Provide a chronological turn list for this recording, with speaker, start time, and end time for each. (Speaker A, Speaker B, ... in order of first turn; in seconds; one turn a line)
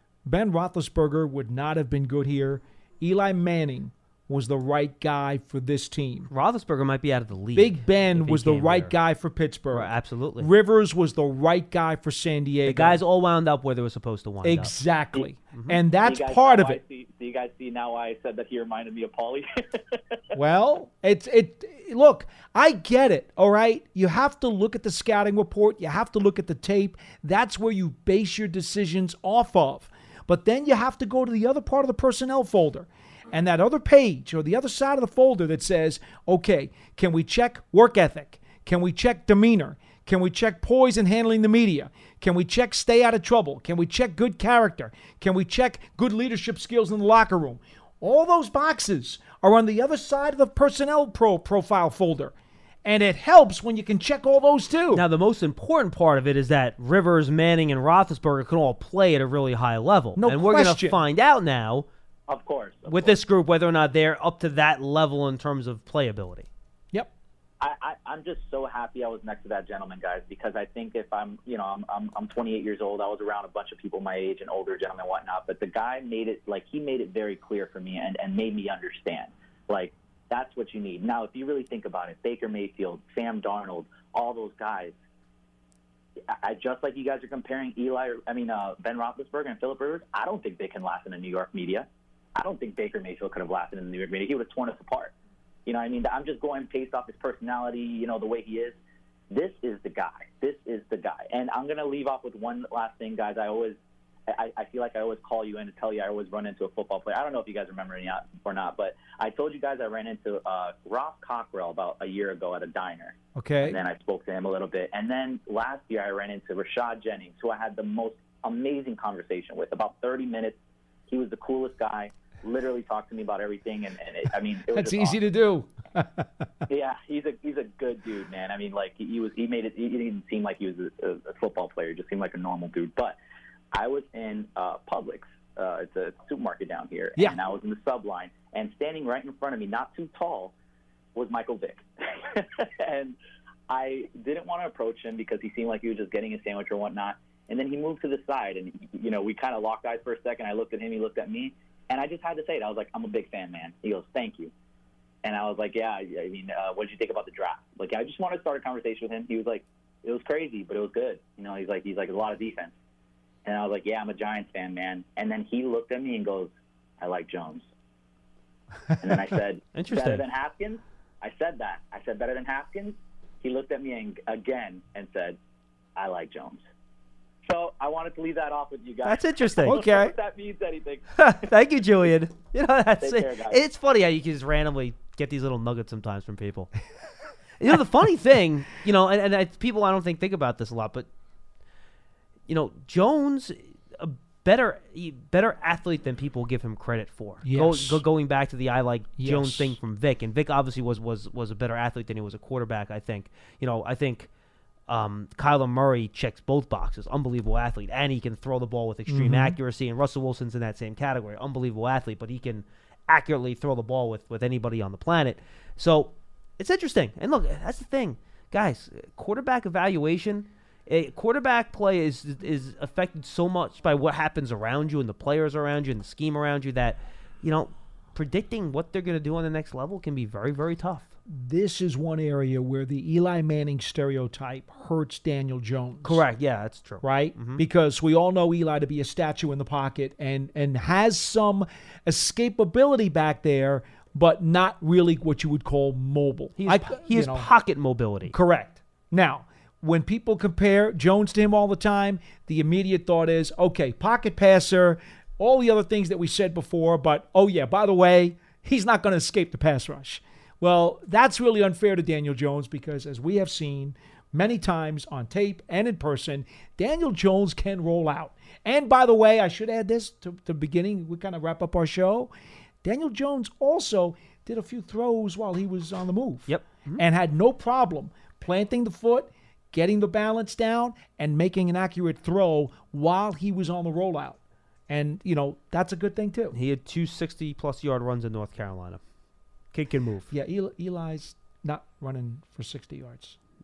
Speaker A: 0.3-6.3
Speaker B: 6.3-8.9
Speaker A: 7.5-13.0
Speaker B: 9.7-10.5
Speaker B: 12.7-14.7
Speaker A: 14.4-16.8
Speaker B: 15.5-15.8
Speaker C: 16.0-20.1
Speaker A: 20.3-52.3
Speaker A: 52.8-55.0
Speaker B: 54.9-61.9
Speaker A: 60.1-61.0
Speaker C: 62.3-63.1
Speaker B: 62.9-66.5
Speaker C: 67.6-84.9
Speaker C: 86.3-95.1
Speaker C: 95.7-98.8
Speaker C: 99.3-103.8
Speaker C: 104.3-125.2
Speaker A: 113.4-113.8
Speaker A: 124.7-126.5
Speaker C: 126.7-133.2
Speaker C: 133.7-140.5
Speaker C: 141.1-143.2
Speaker C: 143.7-154.5
Speaker C: 155.2-162.7
Speaker C: 163.4-167.7
Speaker C: 169.0-175.4
Speaker B: 169.7-170.2
Speaker C: 175.9-176.6
Speaker C: 177.4-181.3
Speaker B: 179.1-179.8
Speaker A: 179.7-180.1
Speaker B: 181.2-186.7
Speaker C: 183.0-183.6
Speaker B: 187.6-191.1
Speaker B: 192.5-204.3
Speaker A: 197.4-198.0
Speaker A: 199.2-199.8
Speaker B: 204.9-231.1
Speaker A: 209.1-209.6
Speaker A: 231.3-236.2
Speaker B: 236.0-237.6
Speaker A: 237.0-247.5
Speaker B: 246.6-248.3
Speaker A: 248.3-272.3
Speaker A: 272.8-286.6
Speaker B: 276.5-277.0
Speaker B: 286.5-289.0
Speaker B: 289.7-290.3
Speaker A: 290.3-293.4